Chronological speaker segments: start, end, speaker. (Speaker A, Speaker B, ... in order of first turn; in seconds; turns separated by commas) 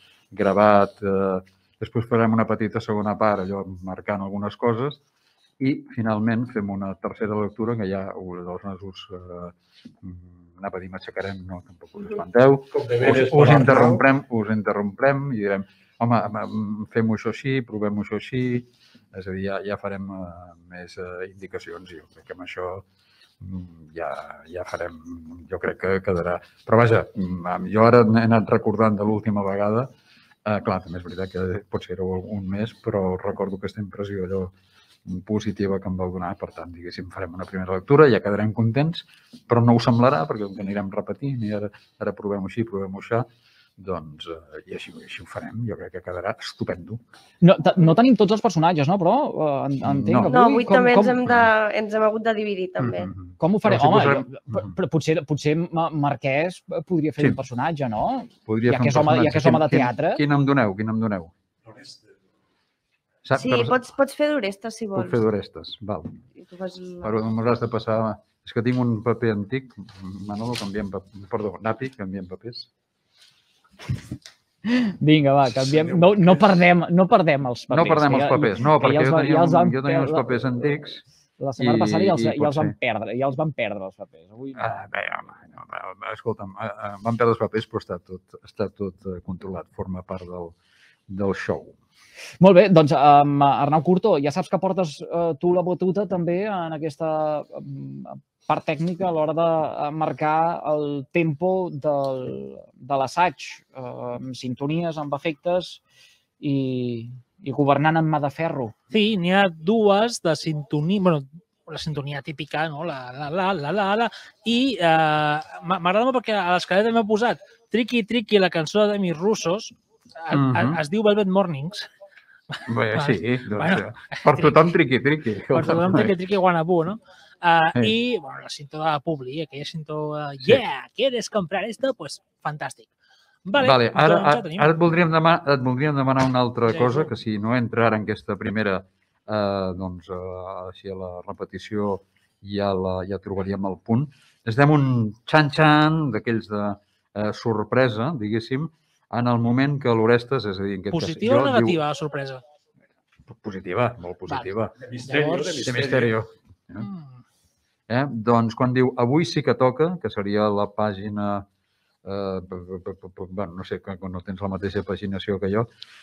Speaker A: 0.3-5.0, Speaker A: 5.6-22.9, Speaker B: 12.7-14.0, Speaker A: 23.4-29.9, Speaker A: 30.4-34.5, Speaker A: 35.0-47.0, Speaker C: 47.4-51.2, Speaker A: 49.8-50.3, Speaker D: 50.3-53.1, Speaker A: 52.8-54.8, Speaker C: 53.4-60.2, Speaker A: 58.5-61.3, Speaker B: 61.6-62.2, Speaker A: 63.2-63.8, Speaker D: 63.3-65.2, Speaker A: 64.9-66.2, Speaker D: 66.3-67.1, Speaker A: 67.0-72.7, Speaker C: 74.7-80.7, Speaker B: 75.5-76.5, Speaker A: 77.7-81.0, Speaker C: 81.4-84.7, Speaker A: 81.6-82.7, Speaker A: 84.5-90.5, Speaker A: 91.1-91.8, Speaker C: 92.4-105.8, Speaker C: 106.4-108.7, Speaker E: 108.9-121.9, Speaker A: 120.3-120.8, Speaker E: 122.5-124.6, Speaker A: 122.7-126.1, Speaker E: 125.5-132.9, Speaker E: 133.4-134.7, Speaker A: 133.6-151.8, Speaker E: 136.7-137.1, Speaker E: 150.9-152.4, Speaker A: 153.3-154.7, Speaker B: 154.8-156.1, Speaker E: 155.1-155.6, Speaker A: 155.6-156.9, Speaker E: 156.8-157.2, Speaker A: 157.9-161.5, Speaker A: 162.0-165.7